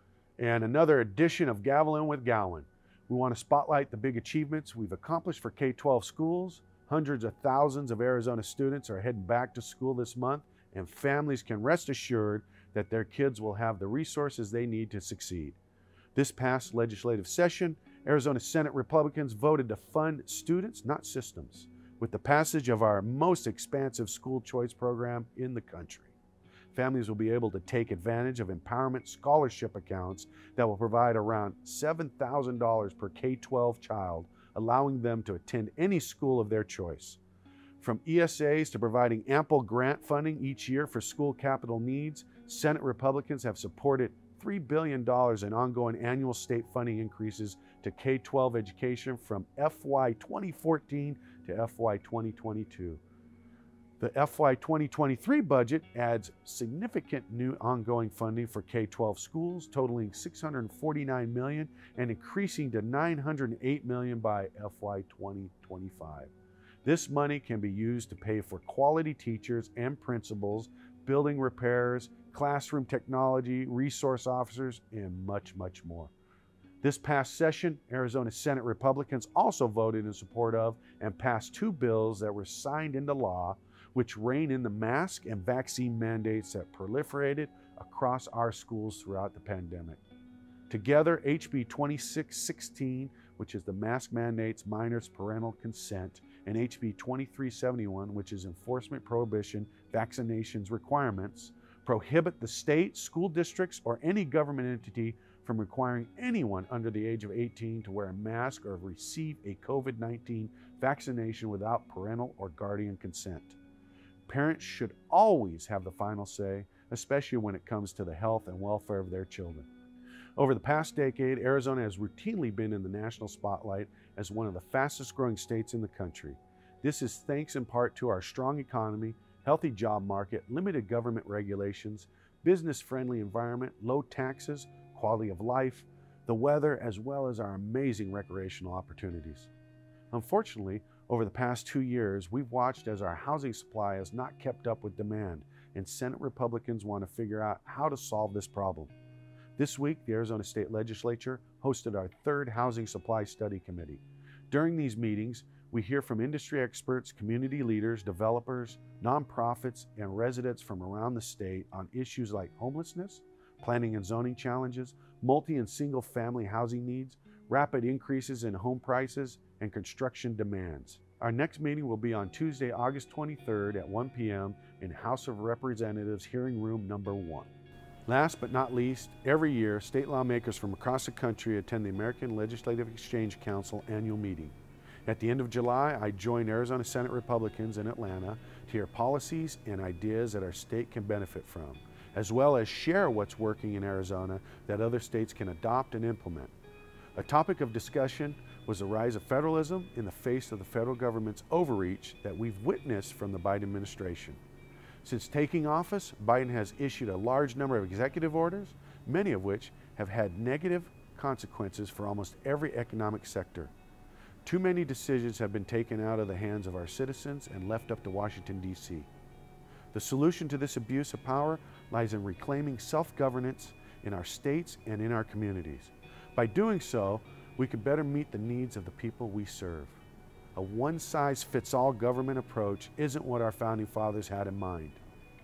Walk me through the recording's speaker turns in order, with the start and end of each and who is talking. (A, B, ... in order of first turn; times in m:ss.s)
0:00.4-0:15.6 A
0:16.2-0:26.2 A
0:26.7-0:37.2 A
0:37.8-0:53.0 A
0:54.0-1:06.3 A
1:06.8-1:16.1 A
1:16.8-1:30.0 A
1:30.7-1:53.6 A
1:54.3-1:59.7 A
2:00.4-2:19.5 A
2:20.1-2:28.9 A
2:29.6-2:57.5 A
2:58.1-3:04.6 A
3:05.1-3:16.5 A
3:17.2-3:24.4 A
3:25.0-3:33.7 A
3:34.4-3:39.1 A
3:39.9-3:50.0 A
3:50.6-3:55.0 A